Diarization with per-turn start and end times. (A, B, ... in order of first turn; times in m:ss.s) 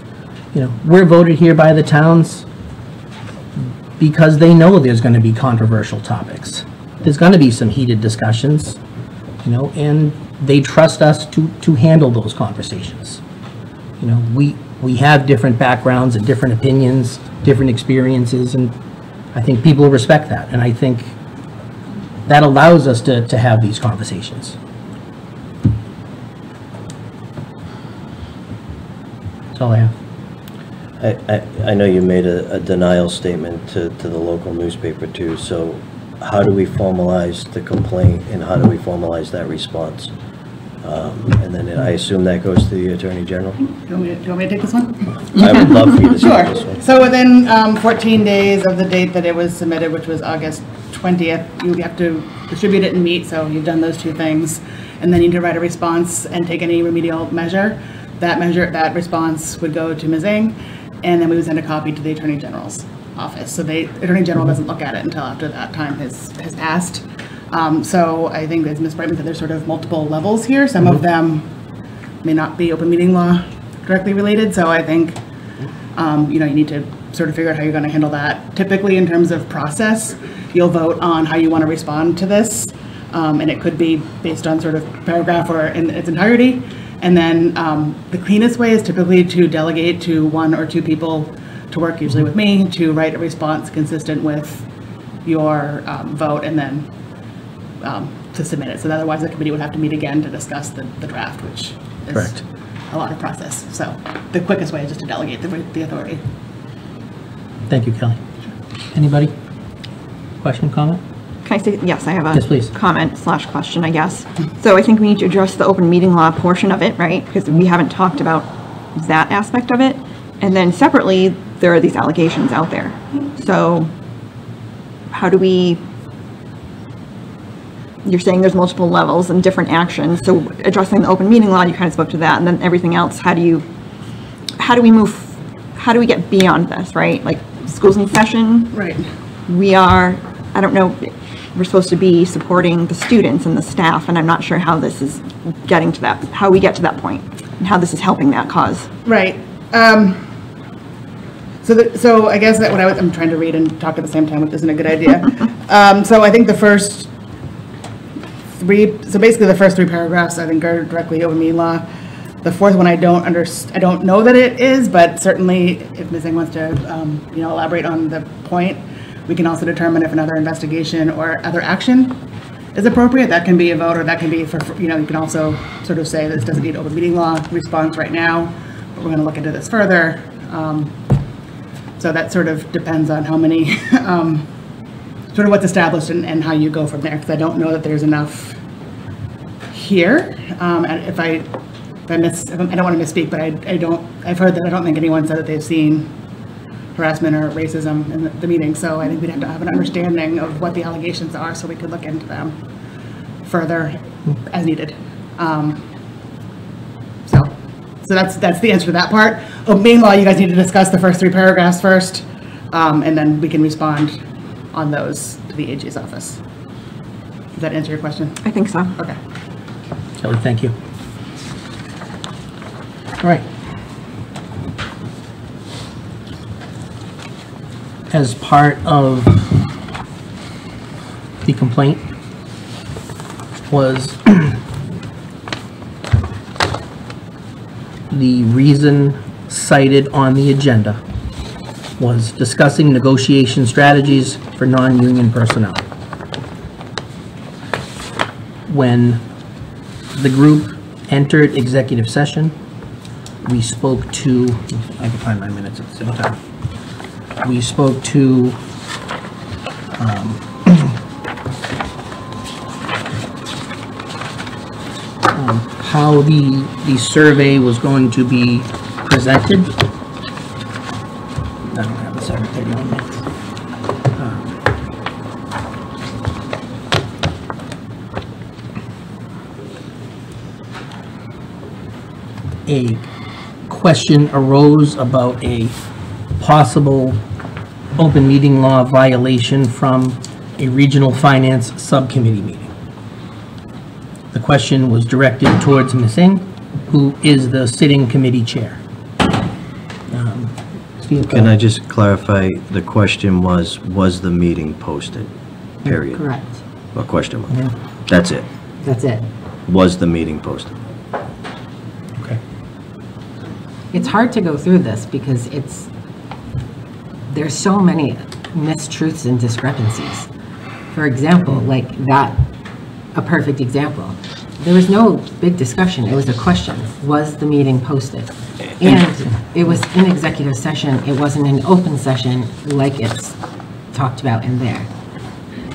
0:00.5-0:02.4 A
0:03.6-0:08.8 A
0:09.4-0:13.2 A
0:14.0-0:18.7 A
0:19.3-0:21.1 A
0:22.3-0:24.6 A
0:29.5-0:29.9 A
0:31.0-0:40.1 B
0:40.8-0:43.6 B
0:43.8-0:45.1 C
0:45.4-0:46.8 B
0:45.7-1:11.5 C
1:12.2-1:15.2 C
1:15.9-1:34.6 C
1:35.2-1:36.9 C
1:37.8-1:42.4 C
1:42.9-1:46.2 C
1:47.7-1:48.2 A
1:48.9-1:49.3 A
1:50.4-1:51.0 A
1:51.4-2:03.9 D
1:52.3-1:52.7 A
2:05.1-2:05.8 D
2:08.0-2:13.6 D
2:14.6-2:18.7 D
2:18.7-2:19.1 C
2:19.5-2:28.9 D
2:29.0-2:30.4 C
2:31.6-2:37.1 C
2:38.5-2:41.8 C
2:42.4-2:52.2 C
2:52.7-3:01.0 C
3:02.0-3:04.5 C
3:05.3-3:08.6 C
3:09.7-3:11.5 C
3:12.1-3:16.1 C
3:16.9-3:22.6 C
3:23.4-3:25.9 C
3:27.2-3:34.2 C
3:34.7-3:36.4 C
3:37.5-3:38.4 C
3:38.4-3:38.9 D
3:40.2-3:40.7 A
3:43.2-3:43.5 A
3:48.1-3:49.6 A
3:51.4-3:52.0 A
3:53.7-3:54.6 A
3:58.1-4:01.0 A
4:02.0-4:05.8 A
4:08.7-4:09.2 A
4:10.2-4:12.5 A
4:13.4-4:16.4 A
4:17.4-4:18.6 A
4:19.9-4:21.0 A
4:25.3-4:29.8 A
4:31.7-4:33.2 A
4:34.2-4:34.6 A
4:42.6-4:43.1 A
4:43.7-4:45.7 A
4:46.4-4:47.2 A
4:48.0-4:52.7 A
4:54.3-4:58.8 A
5:00.1-5:01.5 A
5:01.3-5:05.3 B
5:05.8-5:06.4 B
5:06.1-5:06.6 E
5:06.9-5:08.5 B
5:08.8-5:09.2 E
5:09.7-5:10.8 B
5:13.9-5:15.9 E
5:17.3-5:20.3 E
5:20.9-5:22.4 E
5:23.1-5:33.4 E
5:33.9-5:34.9 E